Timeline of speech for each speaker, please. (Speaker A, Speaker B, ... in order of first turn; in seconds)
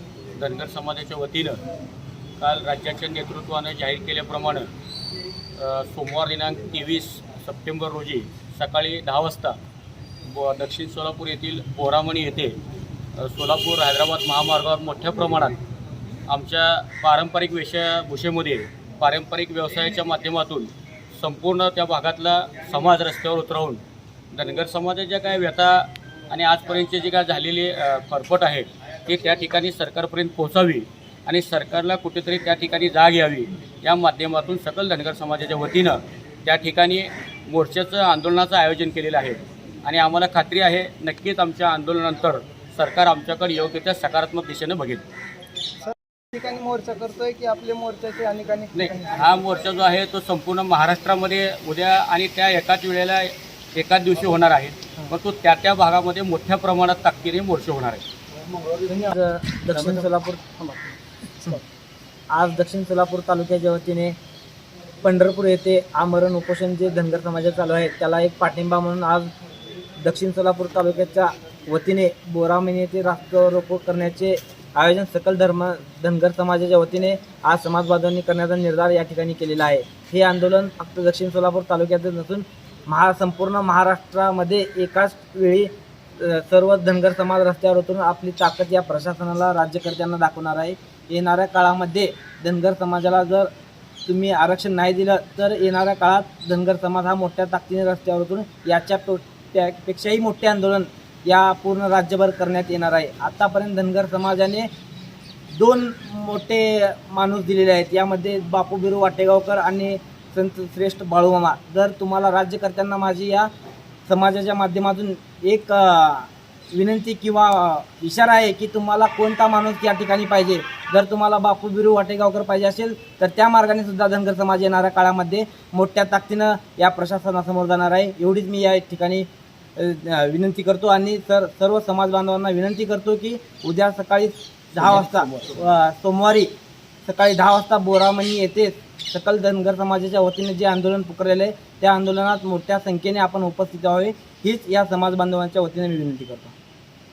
Speaker A: 0.4-1.6, 2.4-4.7, 5.6-9.6, 10.3-12.6, 13.2-15.6, 16.3-23.8, 24.3-45.0, 48.7-58.0
Speaker B: 45.8-49.4, 58.8-59.1, 59.7-60.0
Speaker C: 58.9-60.4, 62.3-64.2, 65.0-69.3, 70.0-93.5, 94.0-104.7, 105.5-113.5, 114.1-136.5, 137.1-146.5